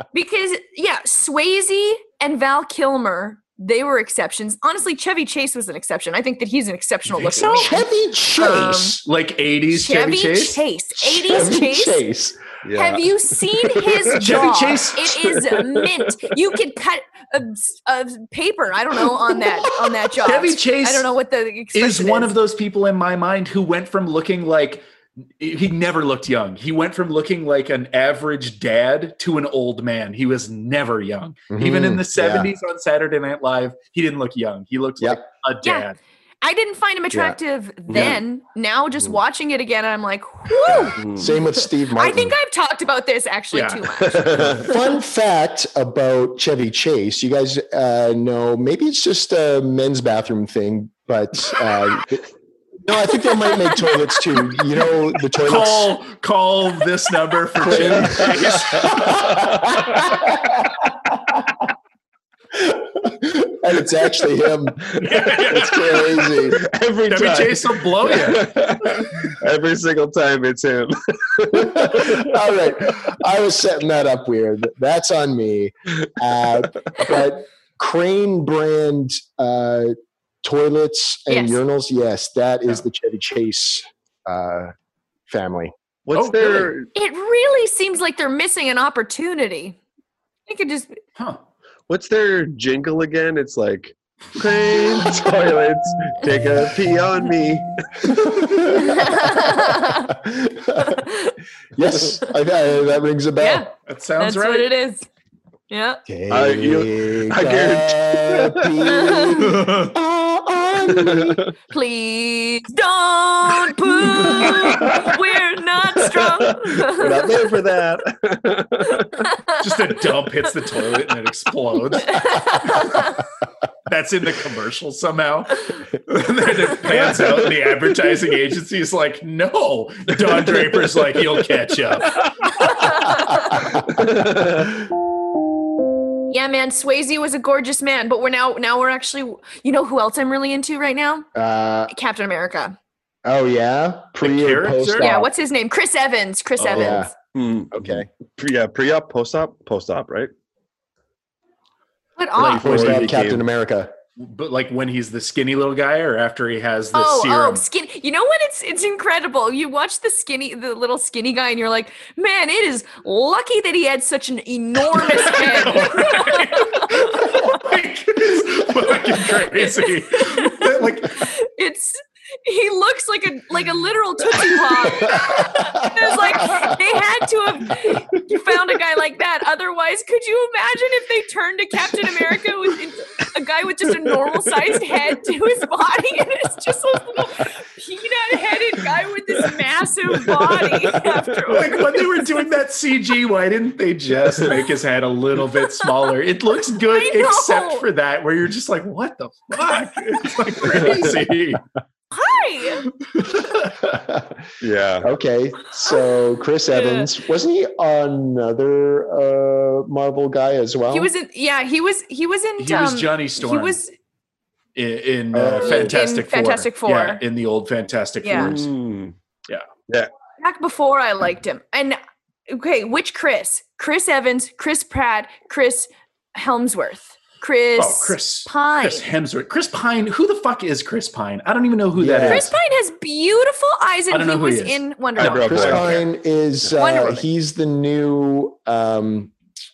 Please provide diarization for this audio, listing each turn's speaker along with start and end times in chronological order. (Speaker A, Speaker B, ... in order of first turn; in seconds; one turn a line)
Speaker A: 0.1-7.8
Speaker B: 7.1-7.8
Speaker C: 7.4-9.0
Speaker A: 8.4-9.0
Speaker B: 9.1-10.6
Speaker A: 9.7-12.0
Speaker C: 11.0-12.4
Speaker D: 12.6-13.1
Speaker A: 12.8-22.3
Speaker B: 14.2-15.0
Speaker D: 15.1-16.1
Speaker B: 20.2-21.1
Speaker B: 21.7-24.9
Speaker B: 25.4-36.0
Speaker C: 31.5-32.5
Speaker A: 35.6-35.9
Speaker A: 36.4-41.1
Speaker C: 37.1-37.4
Speaker D: 37.9-38.2
Speaker C: 40.7-42.4
Speaker D: 41.0-41.3
Speaker A: 41.9-44.6
Speaker B: 43.5-43.9
Speaker D: 44.0-44.7
Speaker C: 44.6-52.3
Speaker C: 52.8-55.9
Speaker A: 53.4-54.0
Speaker B: 55.4-59.3
Speaker C: 57.6-60.6
Speaker D: 57.7-60.1
Speaker C: 62.5-66.7
Speaker B: 65.0-66.1
Speaker D: 65.2-65.6
Speaker D: 66.5-72.4
Speaker B: 67.1-68.5
Speaker C: 71.5-84.7
Speaker A: 81.3-81.6
Speaker C: 85.3-85.7
Speaker D: 86.1-86.9
Speaker B: 86.1-86.7
Speaker A: 86.9-89.8
Speaker A: 90.5-91.0
Speaker D: 91.9-98.6
Speaker C: 98.1-101.0
Speaker A: 98.7-100.1
Speaker A: 100.8-101.3
Speaker C: 101.8-103.7
Speaker A: 103.4-105.1
Speaker B: 103.9-104.7
Speaker A: 105.7-106.0
Speaker C: 106.1-111.4
Speaker D: 106.3-108.7
Speaker A: 108.9-109.5
Speaker B: 109.5-109.9
Speaker D: 110.9-111.5
Speaker A: 111.7-117.5
Speaker D: 114.1-115.2
Speaker D: 116.0-119.3
Speaker B: 119.6-123.0
Speaker A: 122.1-123.2
Speaker B: 123.9-132.2
Speaker D: 126.8-127.7
Speaker A: 132.6-133.6
Speaker D: 133.8-134.9
Speaker A: 136.3-141.3
Speaker C: 141.3-141.9
Speaker A: 141.9-142.8
Speaker C: 143.2-145.3
Speaker B: 144.2-145.1
Speaker A: 145.0-147.1
Speaker B: 146.6-146.9
Speaker C: 146.7-147.1
Speaker D: 147.3-150.3
Speaker C: 147.7-148.1
Speaker A: 152.2-152.7
Speaker B: 152.4-153.2
Speaker D: 152.5-153.4
Speaker C: 152.6-153.9
Speaker B: 154.2-157.6
Speaker A: 156.9-167.6
Speaker B: 165.0-171.2
Speaker A: 169.6-192.0
Speaker C: 175.1-176.7
Speaker D: 184.1-185.1
Speaker D: 190.1-191.8
Speaker B: 191.5-201.6
Speaker A: 196.9-197.8
Speaker A: 202.1-202.8
Speaker B: 203.1-203.7
Speaker C: 203.8-204.4
Speaker D: 204.6-205.1
Speaker C: 205.0-211.1
Speaker A: 205.9-206.1
Speaker A: 206.7-207.1
Speaker A: 210.9-213.9
Speaker B: 212.6-213.8
Speaker B: 214.8-218.6
Speaker C: 215.3-215.9
Speaker A: 215.6-217.2
Speaker A: 218.2-218.6
Speaker D: 218.3-219.2
Speaker A: 220.4-229.1
Speaker B: 227.8-232.5
Speaker C: 231.9-232.5
Speaker A: 232.3-235.8
Speaker B: 234.1-236.0
Speaker D: 235.2-236.0
Speaker C: 235.2-239.3
Speaker A: 236.8-237.2